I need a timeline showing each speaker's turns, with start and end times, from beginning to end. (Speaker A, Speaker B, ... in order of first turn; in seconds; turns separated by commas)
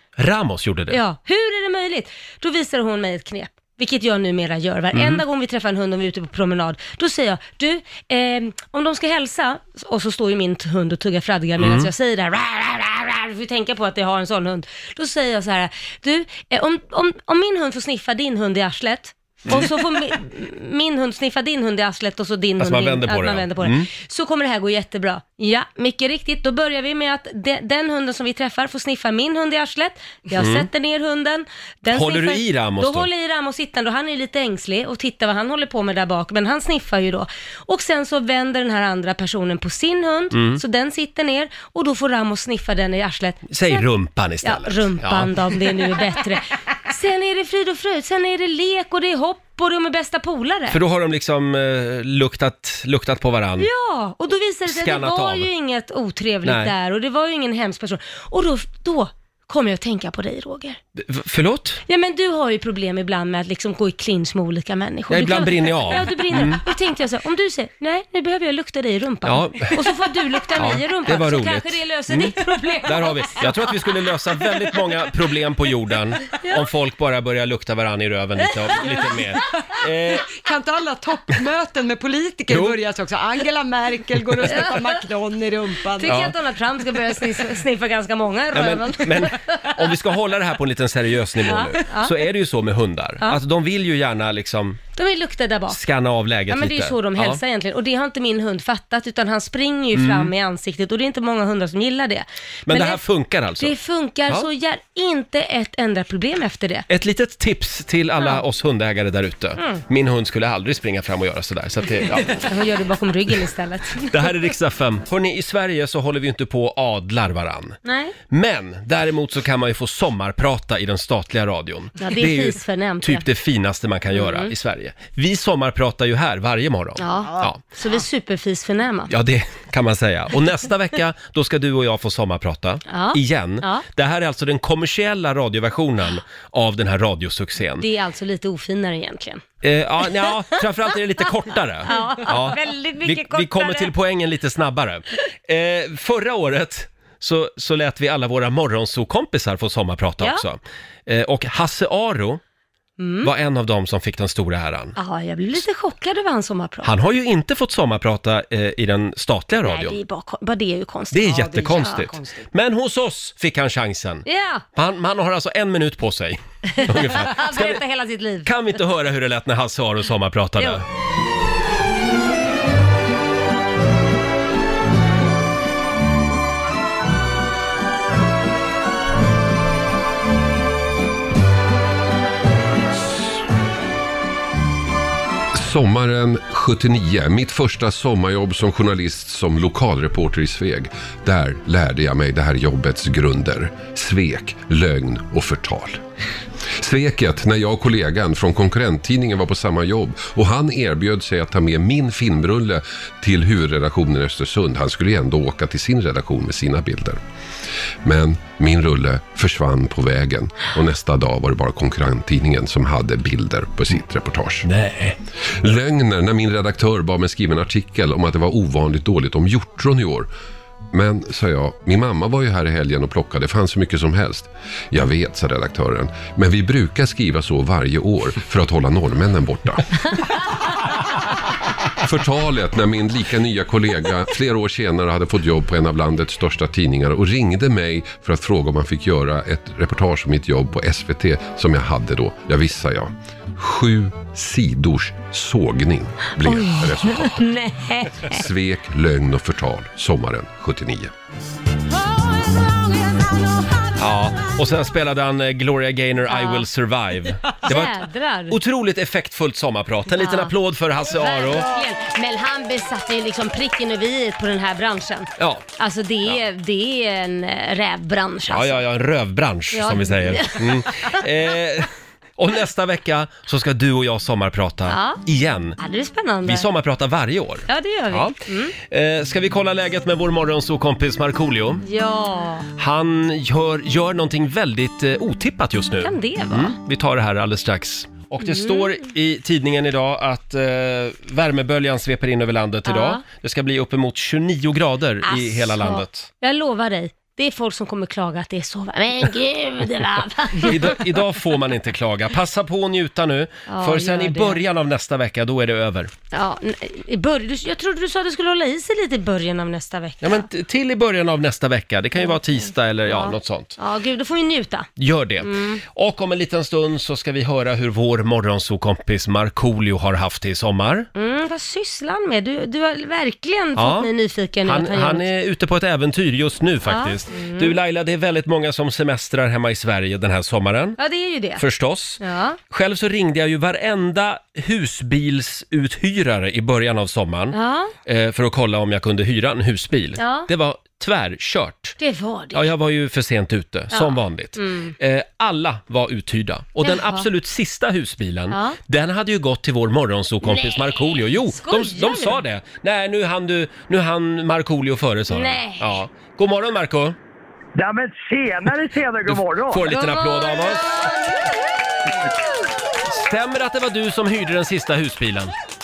Speaker A: 0.2-1.0, Speaker B: 0.9-43.9, Speaker A: 4.9-5.2, Speaker A: 11.6-11.9, Speaker A: 22.6-23.9, Speaker A: 30.4-30.7, Speaker A: 31.9-33.1, Speaker A: 40.3-40.6, Speaker A: 43.5-45.3, Speaker B: 44.4-50.8, Speaker A: 50.7-53.7, Speaker B: 53.6-60.8, Speaker A: 54.7-55.5, Speaker A: 56.4-56.7, Speaker A: 61.0-61.8, Speaker B: 61.9-73.5, Speaker A: 65.1-66.6, Speaker A: 69.2-69.8, Speaker A: 70.6-80.2, Speaker C: 80.2-86.2, Speaker A: 82.5-82.8, Speaker B: 84.5-84.9, Speaker B: 86.0-89.7, Speaker A: 86.0-86.3, Speaker A: 88.5-94.8, Speaker B: 91.4-92.2, Speaker B: 95.0-95.8, Speaker A: 95.7-97.4, Speaker B: 96.5-103.0, Speaker A: 99.9-100.3, Speaker A: 102.7-103.7, Speaker B: 103.6-106.9, Speaker A: 106.9-112.4, Speaker B: 112.2-114.3, Speaker A: 114.1-117.8, Speaker B: 117.8-118.1, Speaker A: 118.3-127.6, Speaker B: 122.0-123.2, Speaker B: 124.1-124.5, Speaker B: 127.0-129.1, Speaker A: 129.1-137.8, Speaker B: 132.9-133.8, Speaker B: 137.8-139.4, Speaker A: 139.6-152.4, Speaker B: 141.8-143.9, Speaker B: 153.0-153.3, Speaker A: 153.2-154.9, Speaker B: 154.9-156.9, Speaker A: 156.8-159.9, Speaker B: 159.6-162.0, Speaker A: 161.1-167.8, Speaker C: 161.3-162.4, Speaker B: 164.2-164.6, Speaker B: 166.7-168.5, Speaker A: 168.4-170.8, Speaker D: 185.5-196.0, Speaker D: 196.8-207.2, Speaker D: 208.0-214.7, Speaker A: 214.7-215.2, Speaker D: 215.6-220.3, Speaker D: 220.9-229.8, Speaker D: 232.0-247.4, Speaker B: 246.4-248.4, Speaker D: 248.3-251.1, Speaker A: 253.9-257.9, Speaker B: 256.3-256.7, Speaker B: 257.6-258.6, Speaker A: 258.5-261.7, Speaker B: 260.1-260.5, Speaker B: 261.1-268.8, Speaker A: 265.4-265.6, Speaker A: 268.5-275.8, Speaker B: 269.7-271.2, Speaker B: 274.9-275.2, Speaker B: 275.8-276.6, Speaker A: 276.4-281.8, Speaker B: 277.7-278.7, Speaker B: 281.8-282.7, Speaker A: 282.8-296.3, Speaker B: 286.0-286.8, Speaker B: 288.4-288.9, Speaker B: 292.9-293.2, Speaker B: 295.2-301.1, Speaker A: 300.6-306.1, Speaker B: 303.7-304.6, Speaker B: 306.3-310.4, Speaker A: 310.2-313.8, Speaker B: 313.1-314.9, Speaker A: 315.0-321.1, Speaker B: 315.4-315.8, Speaker B: 321.1-325.2, Speaker A: 323.8-324.1, Speaker A: 324.6-331.0, Speaker B: 326.9-327.7, Speaker B: 331.0-331.6, Speaker A: 331.6-341.9, Speaker B: 332.2-332.6, Speaker B: 337.5-337.9, Speaker B: 340.2-340.5, Speaker B: 342.0-342.7, Speaker A: 342.5-357.1, Speaker B: 343.9-344.9, Speaker B: 346.8-347.3, Speaker B: 348.5-348.8, Speaker B: 350.4-352.4, Speaker B: 355.3-356.0, Speaker E: 357.7-359.9, Speaker A: 359.3-360.9, Speaker B: 359.9-361.6, Speaker A: 363.1-365.5